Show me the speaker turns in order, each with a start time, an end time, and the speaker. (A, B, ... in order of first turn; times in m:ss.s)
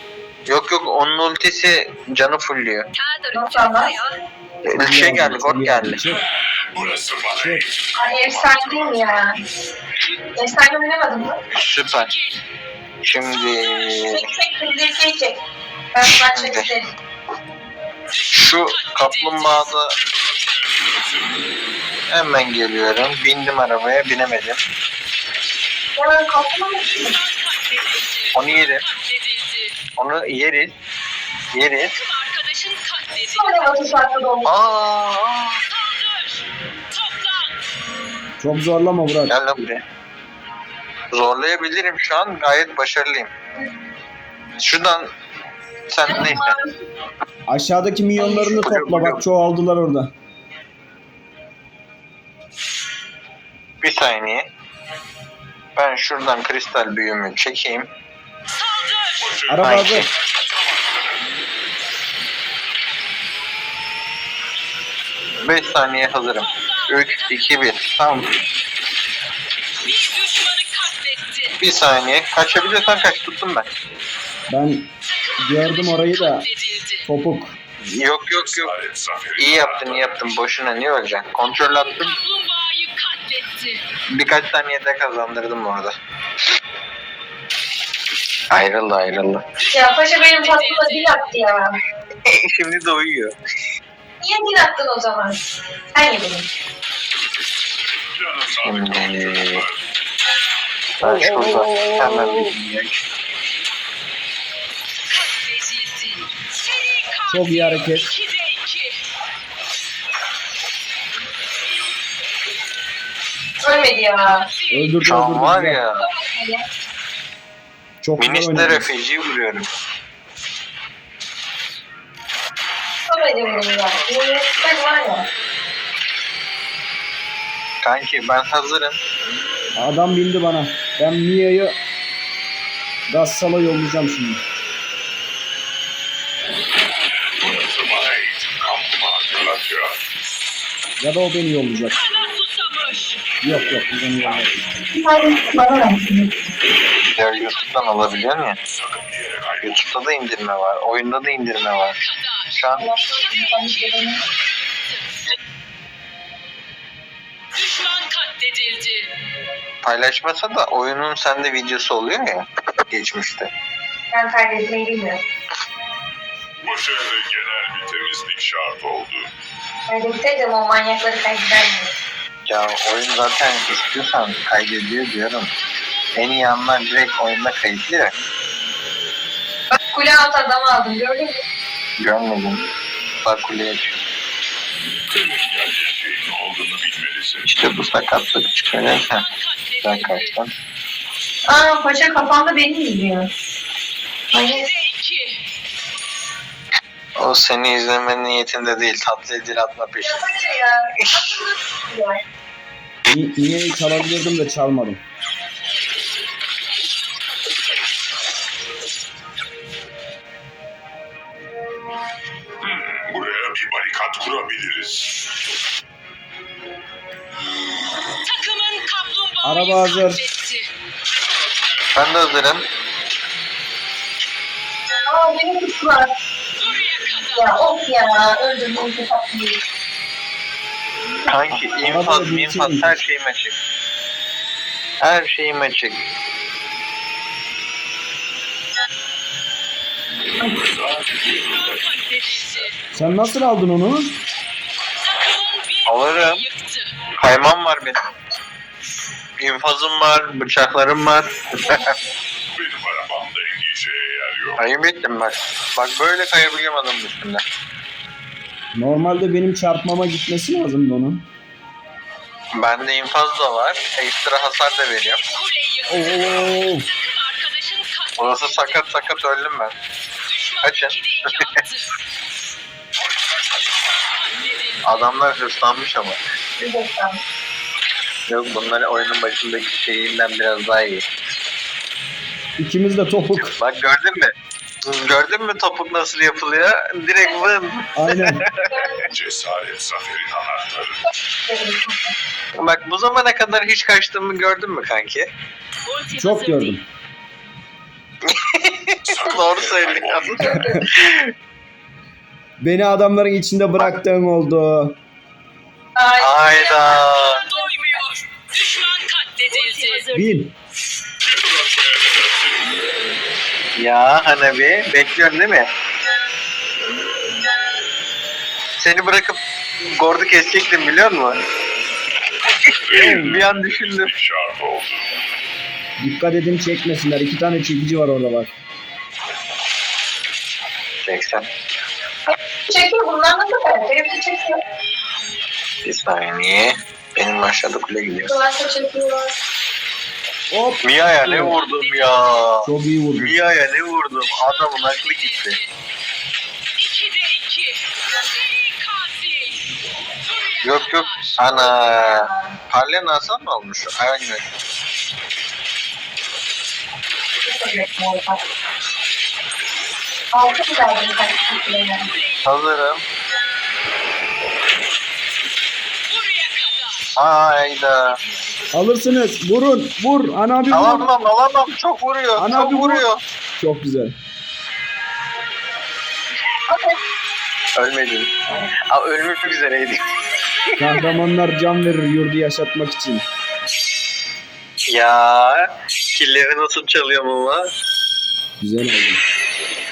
0:00.4-0:02.9 A
0:03.0-0:04.2 B
0:03.3-0:03.9 C
0:04.6-0:06.0 A
0:04.8-0:06.2 D
0:06.7-0:09.4 E
0:07.4-0:07.6 D
0:08.0-0:09.4 C
0:10.4-0:11.4 C
0:11.5-0:12.1 A
0:12.0-0:12.4 B
0:13.0-0:14.2 A
0:14.1-0:15.4 C
0:15.9-0:16.9 C
0:16.3-0:16.7 A
0:18.3-0:20.0 A
0:19.0-0:19.6 B
0:20.0-0:21.5 E
0:22.1-0:24.6 A
0:26.0-0:27.2 C
0:27.2-0:29.7 B
0:28.3-0:28.8 A
0:30.0-0:30.7 A
0:31.5-0:32.0 A
0:32.0-0:33.8 B
0:33.3-0:34.5 C
0:34.4-0:35.6 A
0:35.7-0:37.5 B
0:38.4-0:39.3 D
0:39.3-0:39.8 A
0:41.1-0:43.3 A
0:44.6-0:45.1 A
0:45.9-0:46.6 A
0:46.0-0:46.8 C
0:47.5-0:50.1 D
0:48.2-0:49.2 A
0:53.8-0:54.5 A
0:55.8-0:57.9 A
0:58.6-0:59.1 B
0:59.2-1:01.3 E
0:59.5-1:00.1 D
0:59.6-1:00.1 A
1:05.4-1:08.3 A
1:06.6-1:07.2 B
1:09.8-1:11.5 B
1:11.6-1:13.7 A
1:14.5-1:14.9 D
1:15.3-1:17.0 B
1:15.4-1:16.5 D
1:17.0-1:17.5 D
1:18.0-1:18.7 A
1:18.3-1:20.4 E
1:19.4-1:22.2 A
1:21.8-1:23.8 B
1:24.1-1:25.9 A
1:28.5-1:29.4 A
1:29.7-1:31.7 C
1:30.5-1:31.1 B
1:32.2-1:33.3 A
1:34.2-1:35.4 C
1:35.9-1:36.5 C
1:38.1-1:39.8 E
1:38.6-1:39.6 A
1:41.0-1:42.5 D
1:41.0-1:43.0 A
1:45.1-1:49.0 B
1:47.3-1:48.1 D
1:53.6-1:54.5 C
1:54.6-1:54.9 B
1:54.7-1:55.8 D
1:55.0-1:56.1 A
1:56.0-1:56.6 C
1:58.0-1:58.9 D
1:58.2-1:59.7 A
2:03.1-2:05.3 C
2:07.8-2:09.0 A
2:09.8-2:11.7 D
2:13.1-2:14.4 D
2:17.4-2:20.0 E
2:21.0-2:22.0 D
2:22.0-2:23.2 B
2:23.4-2:24.6 D
2:24.9-2:26.3 C
2:27.2-2:28.6 A
2:28.7-2:29.8 E
2:29.6-2:32.0 A
2:32.1-2:35.2 B
2:32.5-2:32.9 A
2:32.8-2:34.2 C
2:37.5-2:39.1 B
2:39.8-2:43.5 A
2:44.1-2:45.2 C
2:46.6-2:49.3 E
2:49.9-2:51.9 C
2:52.4-2:55.5 A
2:56.1-2:58.1 A
2:59.8-3:01.4 C
3:02.0-3:02.6 A
3:03.2-3:04.0 A
3:05.1-3:07.6 E
3:07.4-3:09.2 A
3:09.2-3:10.3 B
3:09.8-3:10.5 A
3:11.5-3:13.3 C
3:14.3-3:14.7 C
3:14.7-3:15.4 B
3:17.2-3:20.5 A
3:20.0-3:22.2 C
3:23.0-3:25.0 D
3:32.6-3:35.2 E
3:38.2-3:40.7 B
3:39.4-3:40.2 D
3:41.9-3:42.6 A
3:45.1-3:46.1 C
3:46.6-3:47.5 B
3:47.3-3:49.6 C
3:51.3-3:53.6 A
3:51.8-3:53.0 D
3:55.0-3:56.0 A
4:00.6-4:02.0 E
4:01.8-4:02.7 B
4:02.9-4:04.1 D
4:05.1-4:06.9 B
4:05.8-4:06.4 A
4:07.2-4:08.0 A
4:09.4-4:11.9 A
4:12.5-4:14.6 E
4:14.6-4:17.4 A
4:18.8-4:21.2 D
4:22.6-4:25.2 A
4:25.3-4:28.8 B
4:25.9-4:26.9 D
4:28.2-4:29.7 A
4:30.3-4:31.9 B
4:30.6-4:31.5 A
4:34.3-4:34.8 B
4:34.8-4:36.2 A
4:36.6-4:37.2 C
4:38.3-4:41.0 A
4:42.6-4:43.5 D
4:43.4-4:44.3 A
4:44.8-4:48.7 A
4:48.0-4:48.4 D
4:48.7-4:49.1 C
4:49.1-4:51.0 E
4:51.5-4:52.1 C
4:52.6-4:55.3 A
4:55.9-4:56.8 B
4:56.1-4:56.8 D
4:58.3-5:01.3 A
4:59.1-5:00.4 E
5:00.4-5:00.8 C
5:00.4-5:00.8 D
5:02.6-5:05.0 D
5:06.0-5:06.9 C
5:06.2-5:07.4 A
5:07.2-5:10.1 B
5:10.1-5:10.5 D
5:11.2-5:12.9 E
5:13.8-5:15.7 A
5:18.8-5:21.4 A
5:22.7-5:25.1 E
5:22.9-5:24.1 A
5:23.0-5:23.4 D
5:26.0-5:28.5 D
5:31.0-5:31.4 A
5:32.7-5:34.6 C
5:35.8-5:38.3 A
5:38.2-5:39.4 C
5:40.5-5:41.6 D
5:40.8-5:45.6 A
5:42.6-5:43.3 D
5:45.1-5:45.6 B
5:46.8-5:47.8 B
5:48.3-5:49.5 B
5:50.3-5:51.3 B
5:50.6-5:54.4 A
5:51.6-5:52.6 C
5:57.4-5:58.4 C
6:00.3-6:02.1 C
6:02.4-6:03.0 A
6:06.1-6:07.0 B
6:07.2-6:08.2 A
6:08.7-6:11.1 D
6:10.7-6:13.2 A
6:12.4-6:13.1 D
6:13.6-6:14.1 D
6:16.7-6:17.0 C
6:17.8-6:18.3 A
6:18.9-6:20.1 A
6:20.8-6:23.2 D
6:24.9-6:27.7 A
6:28.6-6:29.2 D